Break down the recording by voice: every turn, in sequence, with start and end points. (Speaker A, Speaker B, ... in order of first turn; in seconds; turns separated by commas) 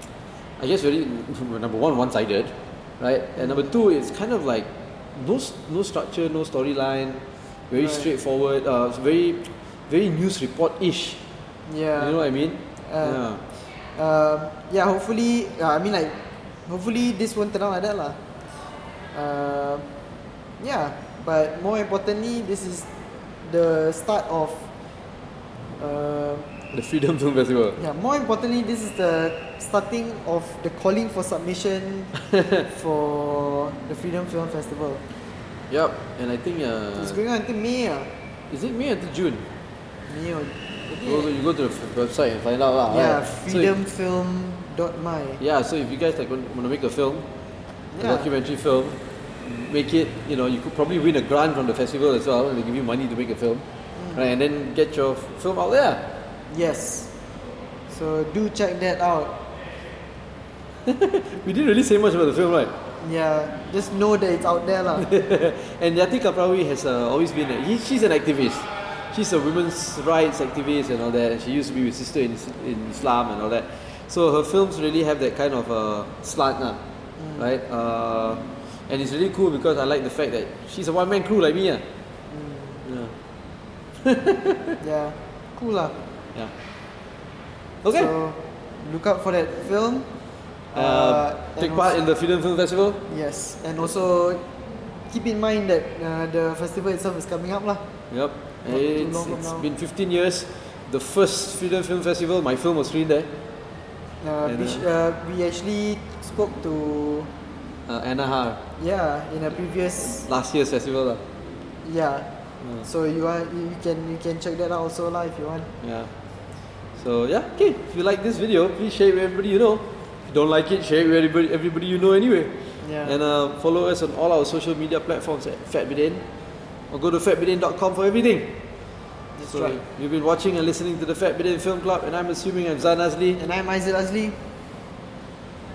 Speaker A: 0.6-11.2, Speaker B: 3.4-3.7, Speaker B: 7.7-8.1, Speaker B: 11.7-12.3, Speaker A: 12.0-13.4, Speaker B: 12.8-18.2, Speaker B: 19.1-19.9, Speaker B: 20.6-22.9, Speaker B: 23.4-24.7, Speaker B: 25.8-26.5, Speaker A: 26.7-27.8, Speaker B: 27.8-35.0, Speaker A: 35.7-37.2, Speaker B: 37.0-38.1, Speaker A: 38.5-39.5, Speaker B: 40.1-41.4, Speaker A: 41.0-43.7, Speaker B: 42.9-45.4, Speaker A: 45.4-47.3, Speaker B: 47.9-48.3, Speaker A: 48.0-53.6, Speaker B: 54.0-54.3, Speaker A: 54.1-56.0, Speaker B: 56.5-57.1, Speaker B: 57.9-59.4, Speaker A: 60.9-62.7, Speaker B: 63.0-65.1, Speaker A: 65.0-76.8, Speaker B: 77.2-77.5, Speaker A: 77.4-81.8, Speaker B: 82.3-82.8, Speaker A: 82.8-83.1, Speaker A: 84.0-84.8, Speaker B: 84.8-86.0, Speaker A: 87.8-88.1, Speaker B: 87.9-90.1, Speaker B: 90.7-92.0, Speaker A: 90.8-93.0, Speaker B: 93.1-94.4, Speaker B: 95.1-97.8, Speaker A: 98.1-103.3, Speaker B: 98.7-99.7, Speaker B: 104.2-107.3, Speaker A: 104.5-104.9, Speaker A: 107.9-108.6, Speaker B: 108.8-110.3, Speaker A: 110.2-111.2, Speaker B: 111.8-112.3, Speaker B: 112.8-115.7, Speaker A: 115.8-116.1, Speaker A: 117.0-126.2, Speaker B: 122.8-123.2, Speaker A: 126.9-128.5, Speaker B: 129.4-129.8, Speaker A: 129.5-133.4, Speaker B: 133.4-134.4